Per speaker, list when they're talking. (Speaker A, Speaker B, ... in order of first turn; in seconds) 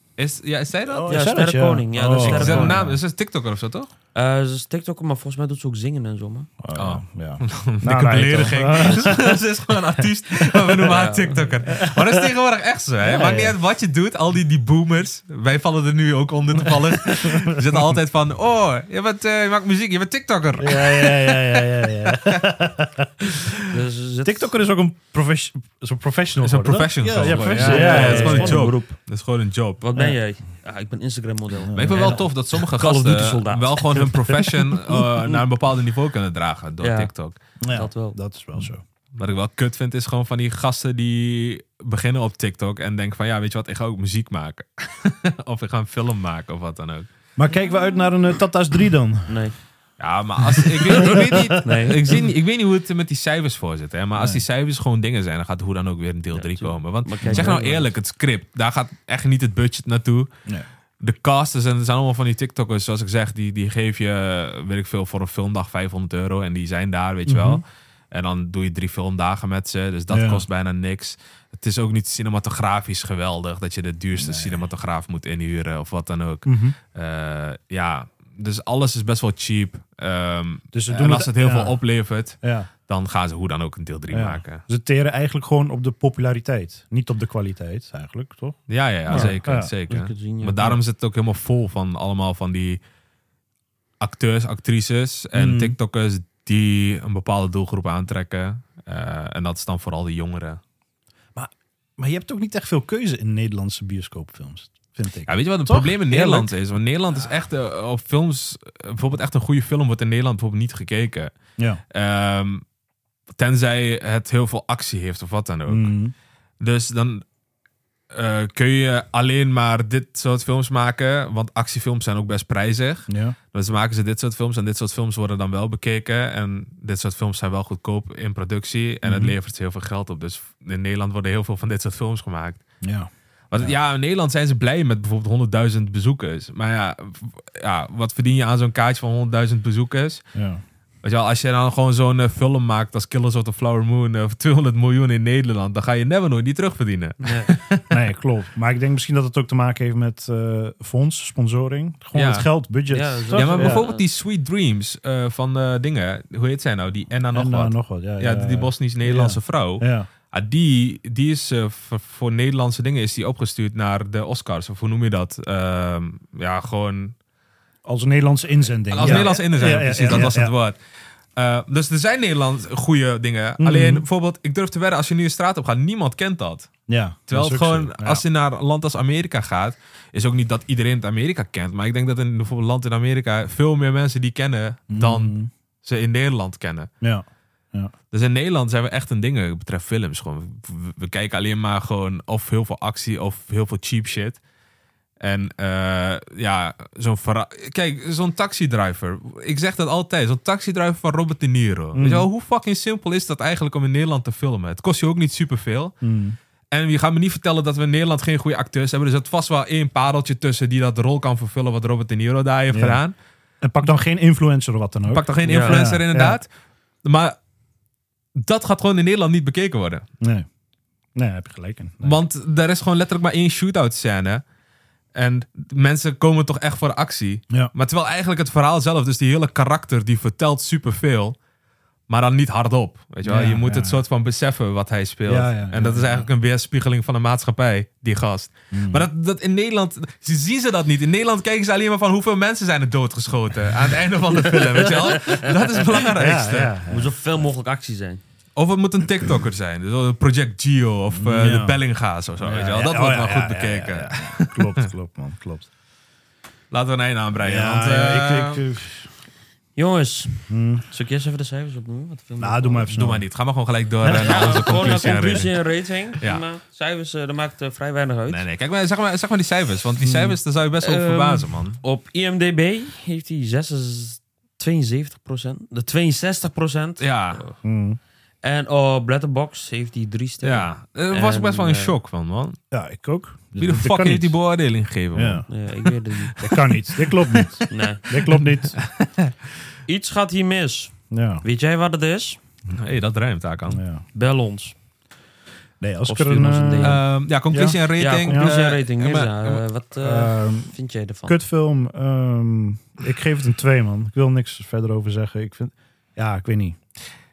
Speaker A: 0.1-1.2, 2.1-3.9, 6.7-21.6, 26.4-29.8, 31.7-37.4, 38.6-47.1, 50.0-60.3, 61.0-84.6, 88.7-92.8, 94.0-100.6, 105.3-111.3, 111.9-112.7, 113.3-116.0, 116.6-117.2, 118.1-132.8, 133.5-140.3, 141.0-147.9, 152.1-152.5, 153.3-167.2, 168.9-170.8, 171.3-186.9, 188.1-194.4, 195.2-206.0, 206.7-213.2, 215.1-216.5, 217.0-217.3, 218.3-220.1, 222.0-224.4, 225.1-231.4, 232.1-246.7, 248.6-254.6, 256.7-258.6, 262.9-265.6, 268.3-271.8, 277.0-277.4, 280.4-282.6, 283.6-285.8, 288.9-289.3, 292.7-293.8, 296.8-299.6
Speaker B: 0.9-3.0, 6.6-9.4, 13.1-13.5, 20.6-23.1, 24.2-28.7, 31.6-32.2, 37.6-38.8, 47.4-49.4, 50.6-51.5, 54.2-54.4, 57.2-57.6, 67.3-67.6, 70.1-70.4, 74.1-74.7, 76.4-76.8, 80.7-82.7, 84.1-89.8, 95.3-95.8, 101.3-106.5, 115.7-116.1, 123.1-123.3, 129.0-129.3, 132.8-133.8, 140.3-140.6, 147.9-153.8, 157.3-160.1, 167.8-170.5, 173.6-174.1, 176.9-178.2, 184.9-185.5, 187.0-187.9, 201.9-202.3, 206.0-206.4, 212.7-213.0, 213.6-216.4, 220.2-220.4, 221.1-222.2, 233.2-234.0, 235.3-236.3, 238.7-239.1, 246.1-247.3, 251.1-255.7, 257.4-259.1, 260.5-260.8, 262.4-263.3, 264.0-265.4, 270.0-270.4, 277.6-278.0, 282.7-284.4, 285.1-285.5, 286.4-288.8, 291.1-291.4, 293.7-294.0, 295.8-298.5, 300.0-306.9
Speaker C: 1.1-2.8, 4.1-6.5, 10.8-11.9, 13.1-13.4, 23.7-24.5, 27.1-29.1, 29.8-34.3, 36.8-38.2, 49.3-49.6, 51.0-52.2, 56.3-57.9, 89.1-90.8, 147.2-147.6, 152.9-154.0, 169.0-169.4, 215.4-215.9, 244.9-245.3, 246.8-248.2, 259.8-262.9, 264.1-268.4, 270.8-277.6, 278.4-282.0, 285.5-286.8, 287.7-288.2, 289.9-292.4, 294.1-294.8, 296.1-297.1, 298.0-301.4